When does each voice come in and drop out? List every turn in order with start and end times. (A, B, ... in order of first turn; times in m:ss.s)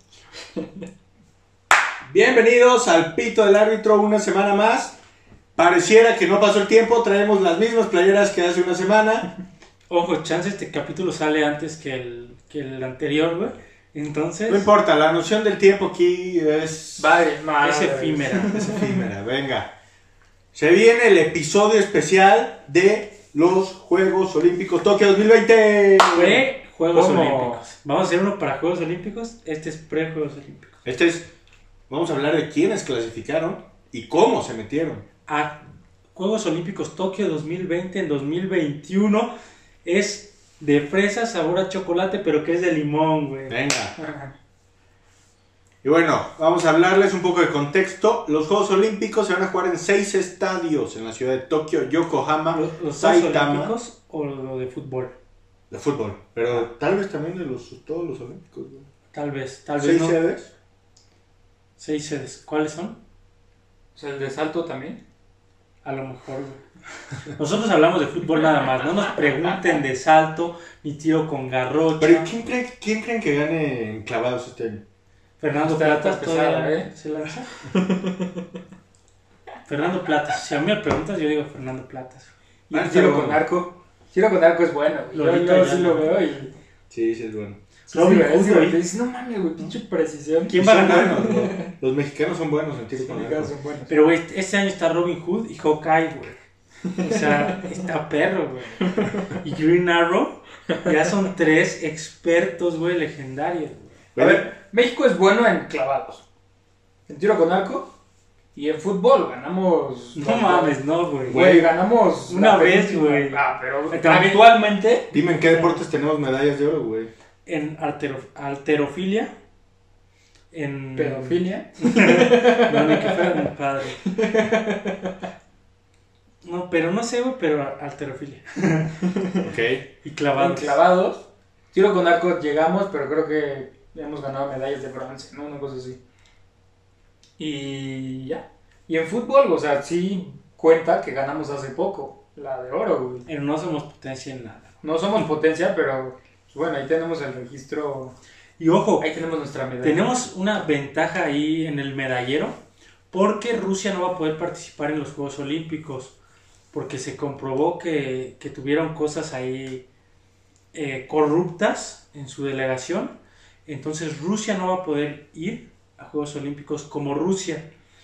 0:00.5-0:00.8 A
0:02.0-0:05.0 B
0:05.6-0:09.3 B
0:09.9-0:14.7 C
0:14.5-0:17.2 B
0:17.0-0:19.0 A
0:17.6-0:18.6 C
0:18.5-0:19.7 B
0:20.5-0:26.4 B
0:26.1-0:30.8 C
0:26.9-0:27.6 A
0:30.8-0:31.3 B
0:31.9-0:35.0 B
0:35.3-0:35.6 C
0:36.1-0:39.3 C
0:39.8-0:43.6 C
0:43.5-0:43.9 B
0:44.0-0:44.3 A
0:45.8-0:53.7 B
0:52.5-0:55.1 C
0:55.7-0:58.9 B
0:59.1-1:00.2 C
0:59.8-1:00.5 B
1:01.8-1:03.0 C
1:04.0-1:05.0 A
1:05.8-1:06.6 C
1:07.3-1:12.3 C
1:12.0-1:14.8 B
1:15.4-1:17.5 C
1:15.6-1:16.9 A
1:17.6-1:18.4 A
1:19.7-1:22.3 C
1:22.7-1:26.5 A
1:22.7-1:23.4 B
1:25.1-1:26.1 C
1:26.9-1:27.6 B
1:27.9-1:30.6 A
1:27.9-1:28.8 C
1:30.5-1:31.3 C
1:30.6-1:33.5 B
1:31.1-1:31.7 A
1:33.0-1:33.9 A
1:33.9-1:36.4 C
1:36.9-1:37.6 A
1:37.0-1:44.0 C
1:44.1-1:44.5 B
1:44.2-1:46.2 A
1:47.1-1:47.9 A
1:48.5-1:55.1 A
1:50.1-1:51.5 C
1:51.3-1:51.7 B
1:52.3-1:54.4 C
1:55.1-1:57.1 B
1:57.4-1:59.3 C
2:00.5-2:04.1 C
2:01.0-2:03.4 A
2:04.0-2:05.1 A
2:06.4-2:08.9 C
2:09.1-2:09.4 A
2:09.4-2:09.8 B
2:10.0-2:10.8 C
2:10.4-2:16.0 A
2:17.4-2:23.2 A
2:23.2-2:24.7 C
2:24.8-2:28.2 A
2:28.6-2:29.1 C
2:29.0-2:30.1 A
2:29.8-2:32.6 C
2:33.1-2:36.1 C
2:36.7-2:39.8 C
2:40.7-2:43.1 C
2:43.6-2:47.7 C